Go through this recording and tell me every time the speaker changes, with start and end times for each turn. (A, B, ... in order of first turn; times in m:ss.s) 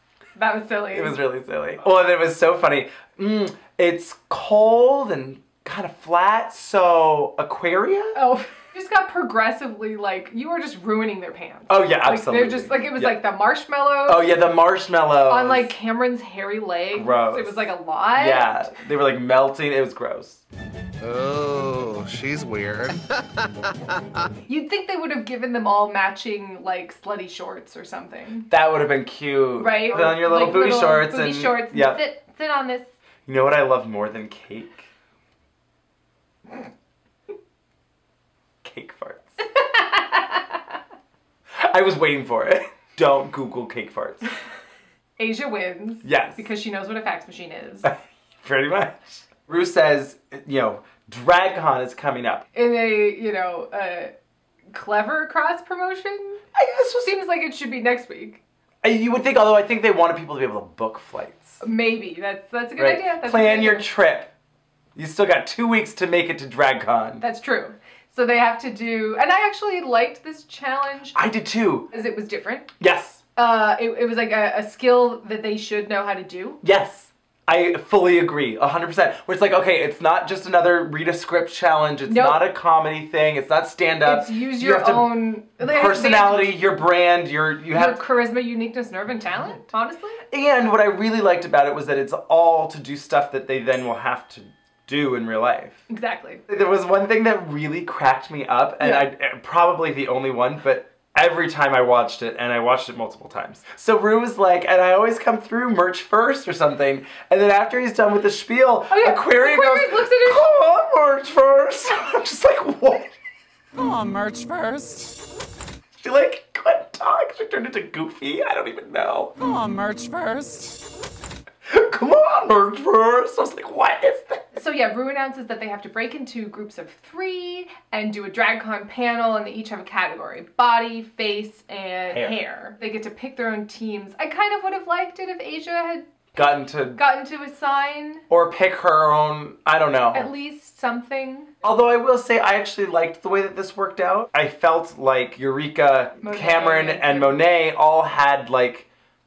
0:00.4-0:01.2 A
0:00.9-0:08.2 B
0:08.1-0:14.3 A
0:11.7-0:13.2 B
0:14.1-0:15.7 B
0:15.3-0:18.5 A
0:16.9-0:20.4 B
0:21.0-0:23.0 C
0:24.5-0:28.5 A
0:28.5-0:32.0 B
0:29.6-0:32.9 A
0:33.2-0:34.9 B
0:38.6-0:39.3 B
0:39.4-0:40.6 A
0:41.6-0:44.2 B
0:45.2-0:47.9 A
0:46.0-0:46.4 B
0:47.8-0:52.4 B
0:52.5-0:54.1 A
0:54.7-0:56.4 A
0:56.5-0:57.1 B
0:57.0-0:58.4 A
0:58.8-1:01.6 B
1:01.6-1:03.8 A
1:02.8-1:04.3 B
1:05.0-1:07.2 B
1:07.2-1:11.2 A
1:11.1-1:11.9 B
1:11.9-1:12.7 A
1:12.8-1:13.2 B
1:13.4-1:16.6 A
1:16.6-1:28.0 B
1:22.1-1:22.4 A
1:24.0-1:26.6 A
1:27.7-1:30.2 A
1:30.3-1:35.8 B
1:35.9-1:36.4 A
1:36.5-1:53.1 B
1:38.8-1:39.1 A
1:48.9-1:50.6 A
1:53.7-1:55.2 D
1:56.0-1:59.3 B
1:59.4-2:00.8 D
2:01.7-2:04.4 B
2:04.5-2:16.2 A
2:16.3-2:17.0 B
2:16.9-2:18.2 A
2:18.3-2:20.3 B
2:20.1-2:21.5 A
2:21.6-2:28.9 B
2:26.2-2:27.4 A